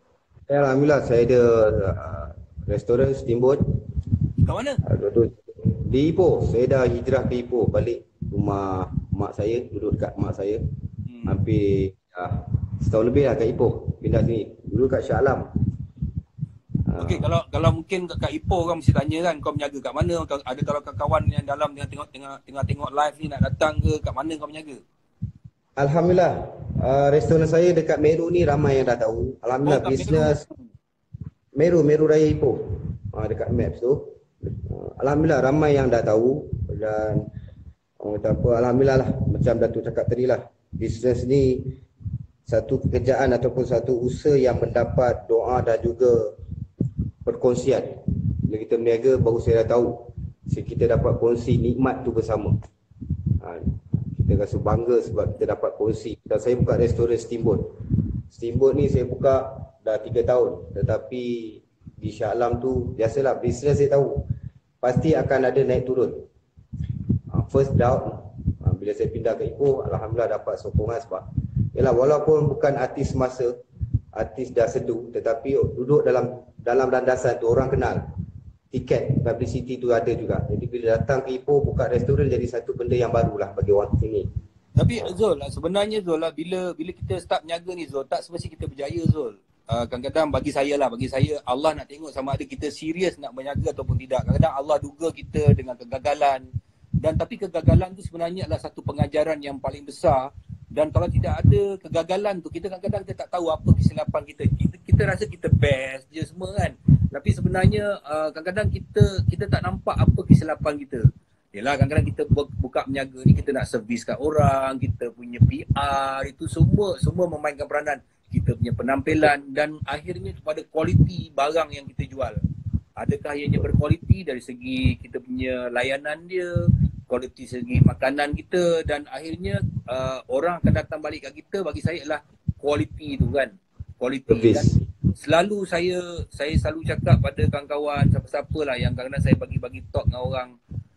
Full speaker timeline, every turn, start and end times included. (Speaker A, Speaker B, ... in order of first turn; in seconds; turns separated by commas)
Speaker A: 0.5-3.6, Speaker B: 4.4-4.8, Speaker A: 4.8-10.6, Speaker B: 11.1-11.4, Speaker A: 11.3-15.4, Speaker A: 16.9-17.2, Speaker B: 17.0-24.8, Speaker A: 25.8-30.4, Speaker B: 29.6-30.6, Speaker A: 31.5-32.6, Speaker A: 33.1-37.3, Speaker A: 38.0-41.8, Speaker A: 42.5-46.3, Speaker A: 47.2-47.9, Speaker A: 48.5-52.5, Speaker A: 53.4-57.7, Speaker A: 58.3-64.2, Speaker A: 64.8-66.2, Speaker A: 67.3-71.2, Speaker A: 71.7-73.5, Speaker A: 74.1-78.0, Speaker A: 78.7-84.3, Speaker B: 84.8-96.5, Speaker B: 97.0-100.2, Speaker B: 100.7-111.0, Speaker B: 111.5-122.4, Speaker B: 123.0-126.5, Speaker B: 127.1-134.7, Speaker A: 134.3-134.8, Speaker B: 135.2-140.5